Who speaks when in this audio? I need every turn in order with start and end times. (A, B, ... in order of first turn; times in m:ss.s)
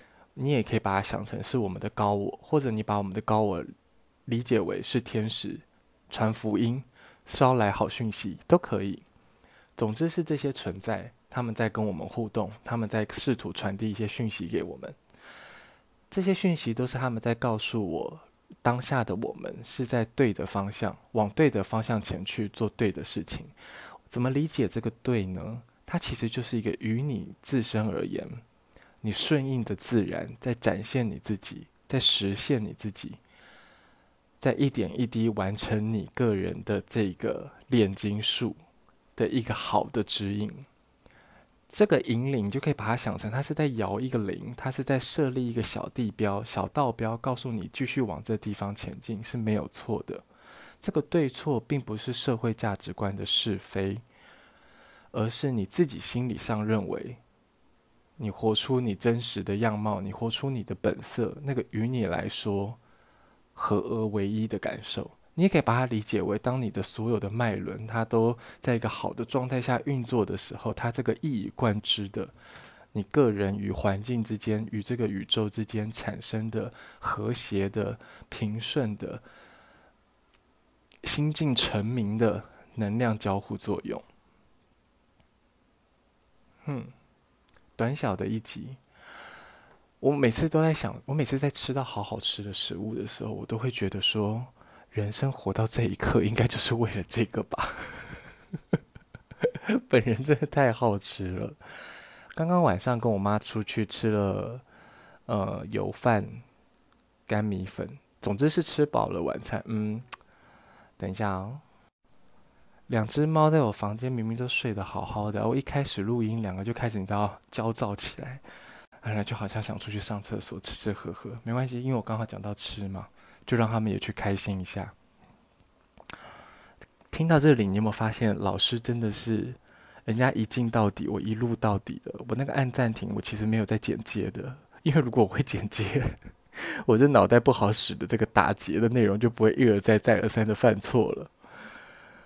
0:00.4-0:03.7 A
0:04.2-0:09.0 A
0:09.8-0:15.0 A
0:16.1-0:23.5 A
0:24.1-0:28.4 A
0:29.0-0:33.2 A
0:34.4-0:38.6 A
0:39.2-0:40.7 A
0:41.7-0:50.2 A
0:50.8-0:54.0 A
0:55.1-0:57.2 A
0:58.2-1:02.8 A
1:03.5-1:12.3 A
1:12.9-1:19.2 A
1:21.0-1:24.0 A
1:26.6-1:26.9 A
1:27.8-1:28.8 A
1:30.0-1:38.2 A
1:39.4-1:41.6 A
1:42.3-1:44.6 A
1:45.3-1:46.4 A
1:47.3-1:50.0 A
1:51.0-1:51.6 A
1:52.9-1:58.4 A
1:59.0-2:04.9 A
2:07.1-2:16.1 A
2:16.8-2:21.3 A